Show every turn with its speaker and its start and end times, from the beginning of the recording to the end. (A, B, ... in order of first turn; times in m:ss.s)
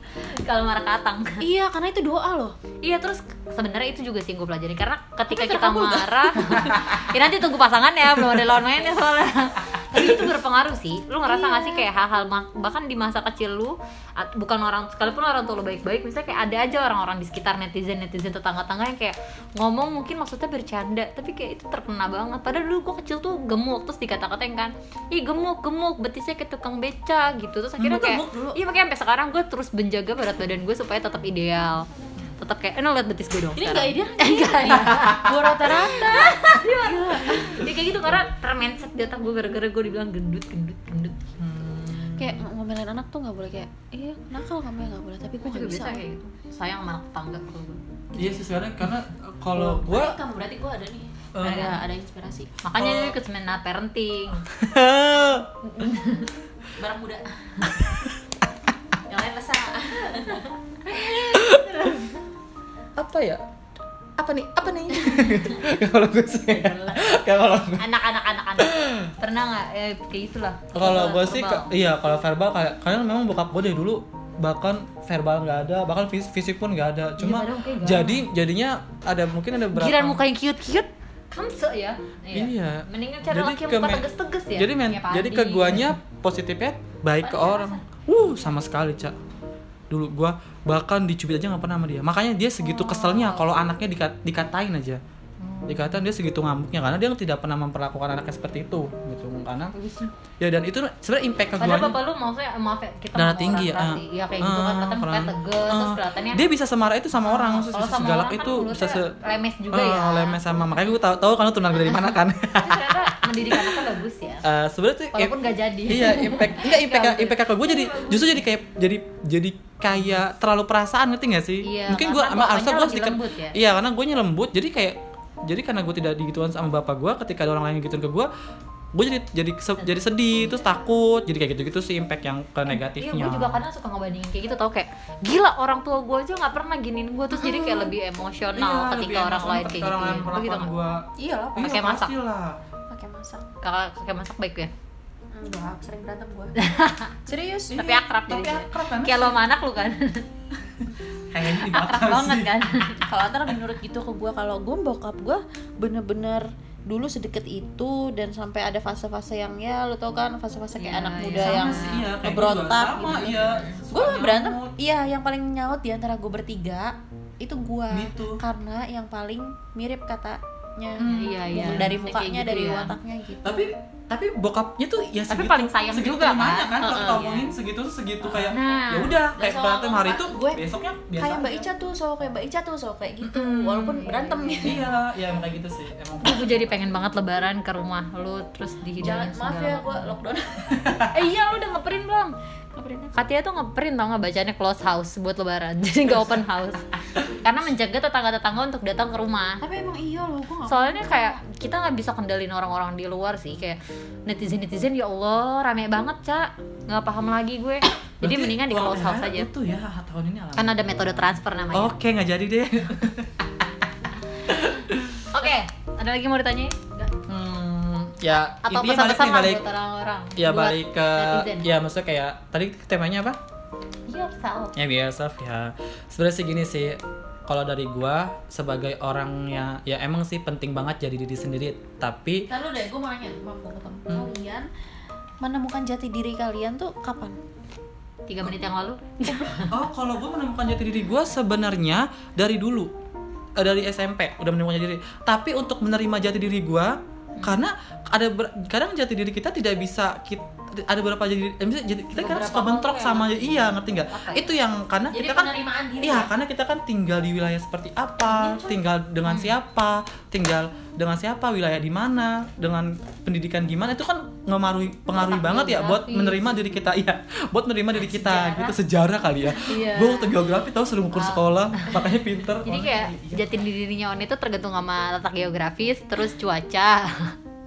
0:00.2-0:01.5 A
0:01.4-0:02.5 B
0:02.8-0:31.8 A
0:05.3-0:06.5 B
0:06.5-0:06.9 C
0:11.2-0:11.8 B
0:27.8-0:28.6 B
0:32.4-0:41.3 A
0:33.6-0:37.5 B
0:41.4-0:42.4 C
0:42.2-0:46.0 B
0:45.4-0:47.8 A
0:48.1-0:48.4 B
0:48.2-0:50.2 C
0:49.5-0:52.5 B
0:51.3-0:51.8 C
0:52.6-0:54.5 A
0:52.8-0:53.2 C
0:54.5-0:55.5 C
0:55.6-0:56.3 A
0:56.8-0:57.2 B
0:59.1-1:00.5 B
1:00.9-1:02.1 A
1:01.1-1:01.9 C
1:03.0-1:03.4 C
1:04.2-1:07.9 C
1:06.4-1:07.2 B
1:07.8-1:11.7 A
1:08.6-1:09.1 C
1:10.7-1:20.2 C
1:17.2-1:18.2 A
1:19.7-1:25.9 A
1:22.3-1:29.2 C
1:27.2-1:27.8 B
1:29.9-1:35.0 C
1:32.6-1:33.5 A
1:35.4-1:36.0 A
1:35.6-1:39.7 C
1:39.7-1:40.1 A
1:40.4-1:42.0 C
1:41.6-1:46.4 A
1:43.1-1:49.1 C
1:47.2-1:50.4 A
1:49.7-1:53.8 C
1:52.6-1:54.5 A
1:54.4-1:55.3 C
1:55.1-1:58.4 A
1:55.9-2:08.3 C
2:01.6-2:03.6 A
2:08.9-2:13.5 C
2:12.7-2:20.7 A
2:17.4-2:17.9 B
2:18.6-2:22.6 C
2:21.2-2:21.8 B
2:21.6-2:22.1 A
2:22.9-2:23.4 B
2:23.6-2:24.7 A
2:25.3-2:26.5 B
2:26.6-2:27.1 A
2:27.2-2:28.0 B
2:27.7-2:30.2 A
2:28.3-2:29.4 C
2:31.3-2:32.6 C
2:31.5-2:33.0 A
2:33.0-2:53.7 B
2:40.8-2:42.0 A
2:41.4-2:44.7 C
2:43.2-2:43.6 A
2:47.9-2:48.4 C
2:51.0-2:52.9 A
2:53.4-3:01.7 C
2:55.3-2:57.1 A
2:56.8-2:57.5 B
2:58.3-3:00.6 B
2:58.5-2:59.1 A
3:01.2-3:04.8 B
3:03.2-3:04.8 A
3:04.6-3:06.8 C
3:06.2-3:10.1 A
3:09.0-3:11.0 B
3:10.7-3:11.1 C
3:11.1-3:12.4 A
3:12.7-3:13.1 B
3:13.1-3:19.6 A
3:19.6-3:21.4 B
3:20.7-3:29.5 A
3:28.2-3:33.6 C
3:30.6-3:32.0 A
3:34.5-3:35.3 C
3:35.3-3:36.8 A
3:37.2-3:39.6 C
3:38.6-3:41.7 A
3:40.4-3:43.4 C
3:44.1-3:44.7 A
3:44.7-3:52.5 C
3:52.5-3:54.7 B
3:55.4-3:57.4 B
3:58.3-3:59.7 A
3:59.2-3:59.7 B
3:59.7-4:02.9 C
4:03.6-4:33.6 C
4:12.1-4:13.7 B
4:14.1-4:14.5 A
4:15.1-4:16.3 B
4:18.2-4:18.8 B
4:19.2-4:19.5 A
4:25.1-4:26.5 A
4:28.0-4:28.8 B
4:29.6-4:30.4 B
4:31.1-4:31.9 A
4:32.6-4:37.3 A